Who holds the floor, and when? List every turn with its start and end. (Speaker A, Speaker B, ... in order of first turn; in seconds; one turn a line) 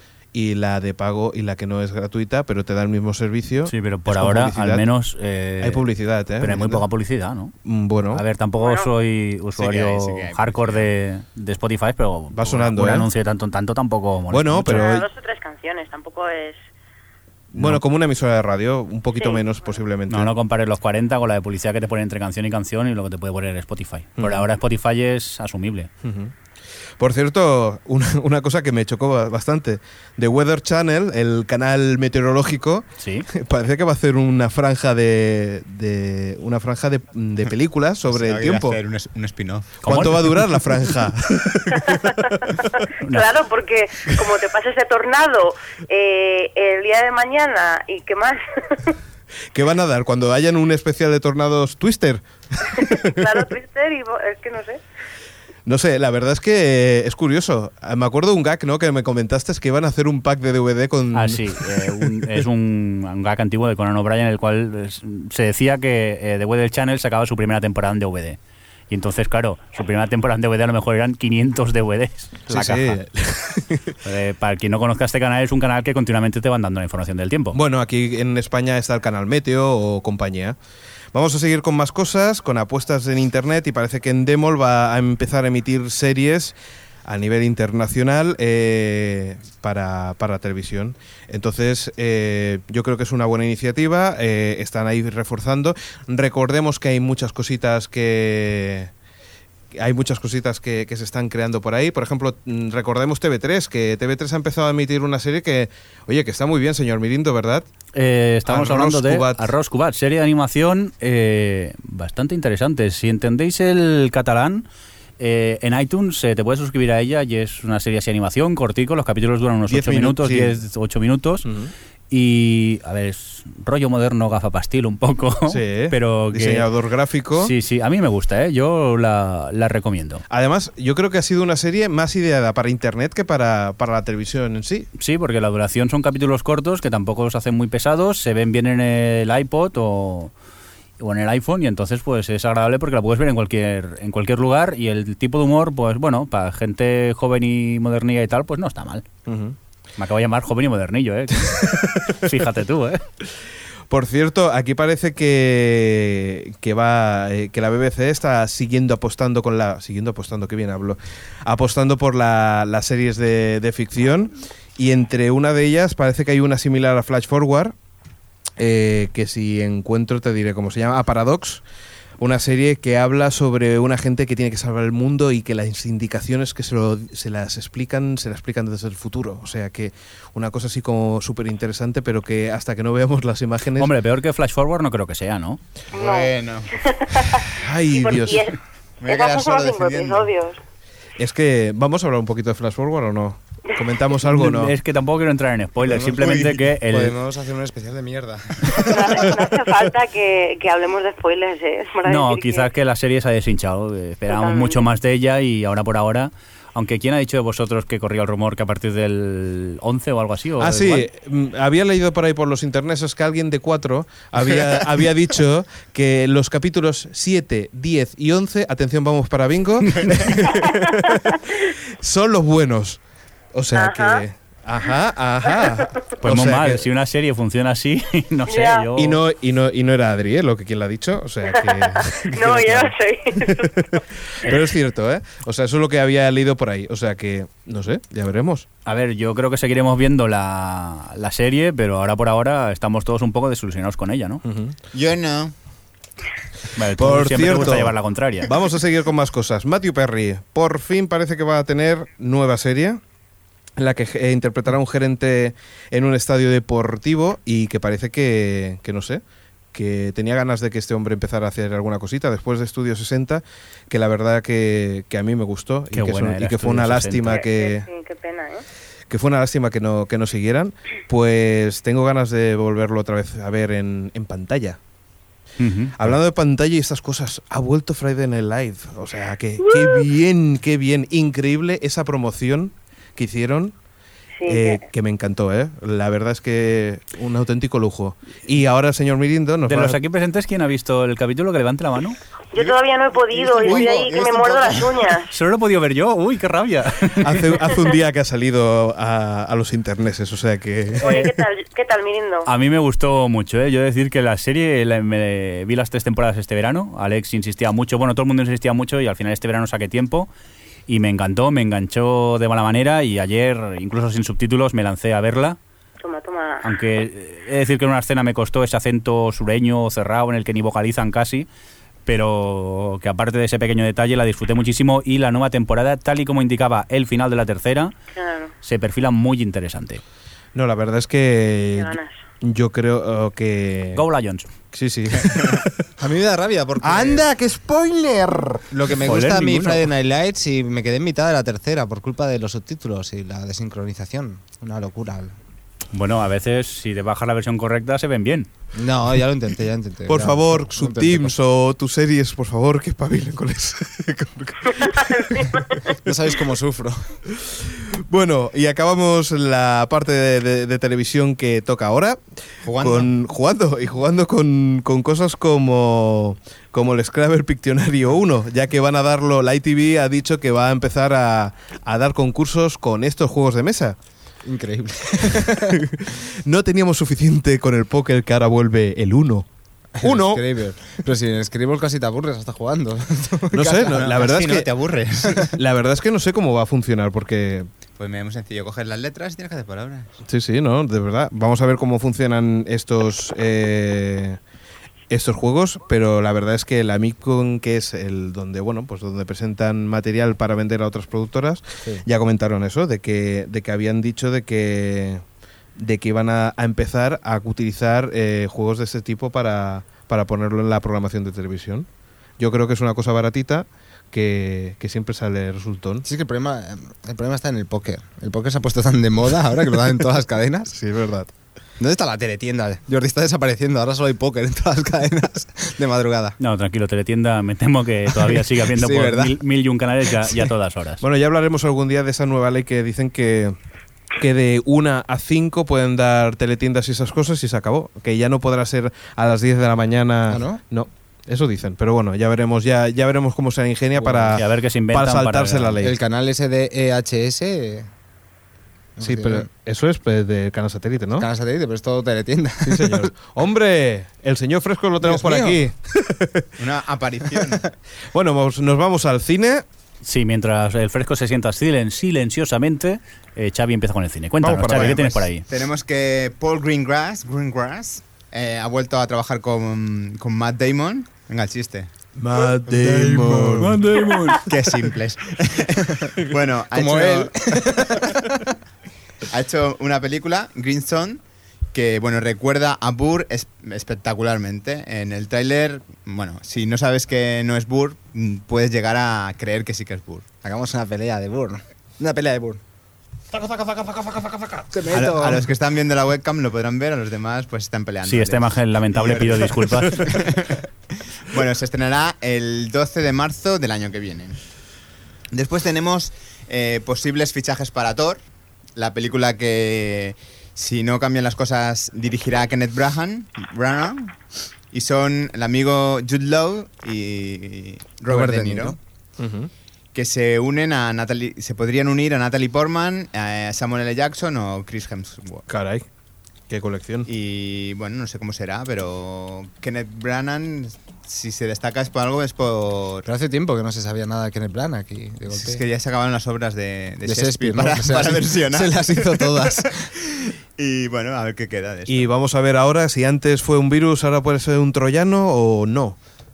Speaker A: 0.3-4.8
Speaker B: 3.6-5.8
Speaker A: 5.6-6.8
Speaker B: 6.4-7.5
Speaker A: 7.6-8.2
Speaker B: 8.1-14.9
Speaker C: 8.6-8.9
Speaker D: 9.6-10.9
Speaker A: 12.3-13.1
Speaker A: 14.3-15.1
Speaker C: 14.7-16.6
Speaker A: 17.5-20.3
Speaker C: 19.1-19.5
Speaker B: 20.1-25.9
Speaker A: 26.0-26.3
Speaker A: 27.0-38.8
Speaker B: 33.0-33.3
Speaker D: 38.1-39.7
Speaker B: 39.8-40.5
Speaker A: 39.9-42.6
Speaker C: 42.9-49.0
Speaker A: 49.5-53.4
Speaker C: 52.6-54.8
Speaker A: 55.6-62.4
Speaker B: 61.1-68.4
Speaker B: 68.9-73.0
Speaker A: 72.5-74.0
Speaker B: 74.0-77.6
Speaker A: 77.5-80.6
Speaker A: 81.1-98.9
Speaker A: 99.7-107.7
Speaker B: 107.9-114.7
Speaker A: 108.4-109.5
Speaker B: 115.2-121.5
Speaker A: 119.7-120.6
Speaker A: 121.4-121.7
Speaker B: 122.1-126.7
Speaker A: 125.5-127.5
Speaker B: 127.3-130.2
Speaker A: 130.3-134.9
Speaker B: 135.0-140.3
Speaker B: 141.0-149.1
Speaker A: 149.2-149.6
Speaker B: 150.0-153.0
Speaker A: 151.5-152.3
Speaker A: 153.9-167.7
Speaker A: 168.6-171.6
Speaker A: 172.2-183.9
Speaker B: 183.8-185.6
Speaker D: 185.9-187.5
Speaker C: 185.9-190.6
Speaker A: 187.5-188.5
Speaker D: 189.0-190.3
Speaker A: 191.2-194.7
Speaker B: 194.2-197.2
Speaker E: 195.9-196.2
Speaker E: 196.9-199.4
Speaker C: 198.8-202.7
Speaker B: 202.0-211.1
Speaker C: 204.3-204.8
Speaker A: 210.6-223.0
Speaker C: 220.5-220.9
Speaker A: 223.5-226.8
Speaker C: 223.7-224.2
Speaker B: 226.2-229.2
Speaker C: 228.5-228.8
Speaker A: 228.9-238.7
Speaker C: 231.5-234.6
Speaker B: 238.8-244.4
Speaker A: 244.4-244.8
Speaker D: 244.9-245.5
Speaker B: 246.7-248.5
Speaker A: 247.0-253.0
Speaker A: 253.8-259.2
Speaker A: 259.7-267.9
Speaker B: 265.9-267.4
Speaker C: 267.3-268.6
Speaker A: 269.1-274.8
Speaker B: 275.6-276.1
Speaker A: 276.0-283.7
Speaker C: 284.4-284.8
Speaker A: 284.4-290.0
Speaker B: 289.6-292.2
Speaker C: 292.5-295.3
Speaker D: 293.3-295.0
Speaker A: 293.6-294.0
Speaker B: 295.3-297.5
Speaker A: 297.1-301.3
Speaker C: 301.0-302.5
Speaker B: 301.0-301.3
Speaker B: 302.4-310.3
Speaker B: 310.9-315.6
Speaker C: 316.0-316.6
Speaker B: 316.6-321.5
Speaker B: 322.1-327.9
Speaker C: 328.1-328.5
Speaker B: 328.6-330.0
Speaker A: 330.5-334.0
Speaker C: 331.7-332.1
Speaker B: 333.9-334.5
Speaker A: 334.7-335.8
Speaker E: 336.0-337.3
Speaker A: 336.8-338.6
Speaker E: 338.7-345.3
Speaker B: 339.0-339.9
Speaker B: 345.9-348.5
Speaker E: 348.8-351.3
Speaker A: 350.1-355.6
Speaker C: 354.8-355.7
Speaker E: 356.0-357.0
Speaker A: 357.3-374.0
Speaker D: 362.6-363.1
Speaker E: 374.4-375.8
Speaker A: 375.3-379.5
Speaker E: 380.0-384.0
Speaker A: 380.0-380.4
Speaker A: 383.5-384.7
Speaker D: 383.8-385.5
Speaker A: 385.4-387.7
Speaker D: 388.0-390.1
Speaker A: 390.2-394.4
Speaker A: 395.1-405.2
Speaker A: 405.8-411.9
Speaker A: 412.4-416.0
Speaker E: 416.0-420.7
Speaker A: 420.7-421.3
Speaker E: 421.8-426.4
Speaker B: 426.4-431.0
Speaker E: 428.2-429.4
Speaker A: 431.0-433.6
Speaker A: 434.2-446.0
Speaker E: 440.3-440.6
Speaker E: 444.0-444.4
Speaker B: 444.3-445.8
Speaker E: 445.8-447.9
Speaker E: 448.9-449.4
Speaker A: 449.0-451.3
Speaker E: 451.2-453.1
Speaker A: 452.6-456.5
Speaker E: 455.0-455.6
Speaker D: 456.6-457.6
Speaker A: 458.1-459.6
Speaker B: 460.0-465.4
Speaker A: 464.4-465.2
Speaker D: 464.7-471.9
Speaker A: 472.2-474.4
Speaker E: 472.8-473.8
Speaker B: 473.6-474.4
Speaker D: 474.4-478.1
Speaker E: 476.7-478.2
Speaker D: 479.3-481.2
Speaker D: 481.7-490.3
Speaker E: 490.4-492.6
Speaker E: 493.6-495.5
Speaker D: 494.9-500.6
Speaker B: 498.0-500.1
Speaker D: 501.2-504.4
Speaker D: 505.3-508.2
Speaker D: 508.8-514.1
Speaker D: 514.7-518.8
Speaker A: 518.1-518.6
Speaker E: 518.1-518.6
Speaker A: 519.2-519.5
Speaker D: 519.9-525.5
Speaker A: 525.5-525.9
Speaker A: 526.5-527.1
Speaker D: 527.1-533.1
Speaker E: 533.0-535.6
Speaker D: 535.3-542.0
Speaker E: 537.0-539.8
Speaker A: 541.9-546.0